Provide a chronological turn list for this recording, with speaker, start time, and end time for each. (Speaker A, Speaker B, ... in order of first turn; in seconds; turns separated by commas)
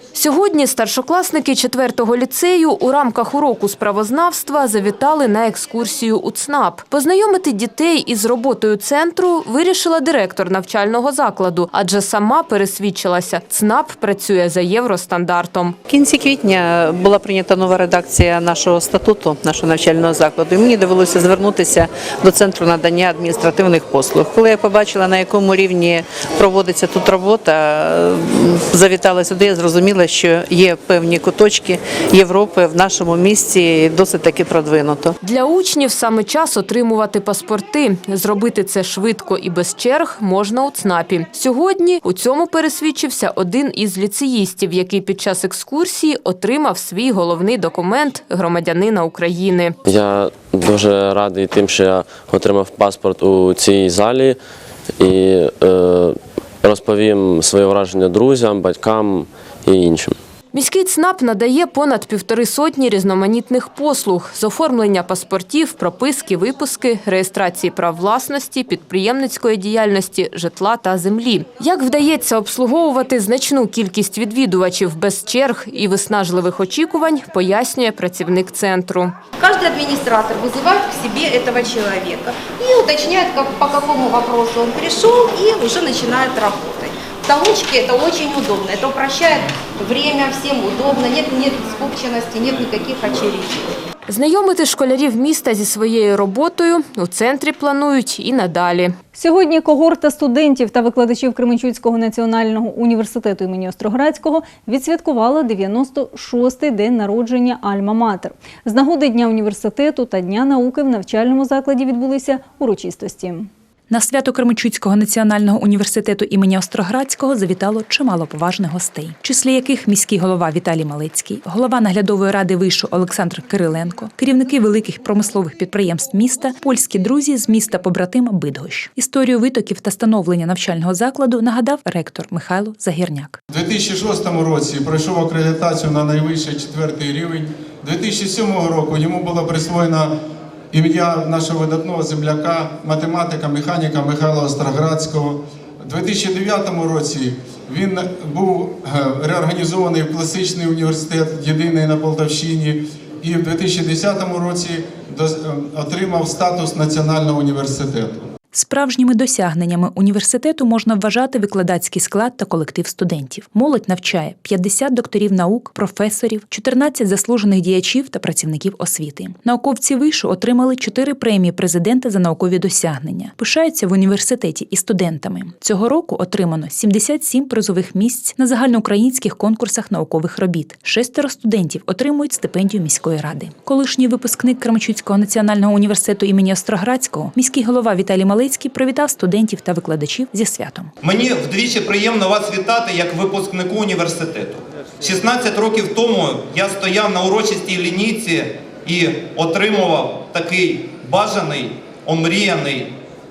Speaker A: 0.1-15.8, Speaker B: 15.9-35.1, Speaker A: 35.2-49.7, Speaker C: 49.9-54.4, Speaker C: 55.0-60.2, Speaker A: 60.5-79.1, Speaker D: 79.4-93.7, Speaker A: 94.1-98.9, Speaker E: 99.1-113.5, Speaker F: 113.9-133.4, Speaker G: 133.5-140.1, Speaker G: 140.7-158.3, Speaker F: 158.5-190.9, Speaker H: 191.0-202.9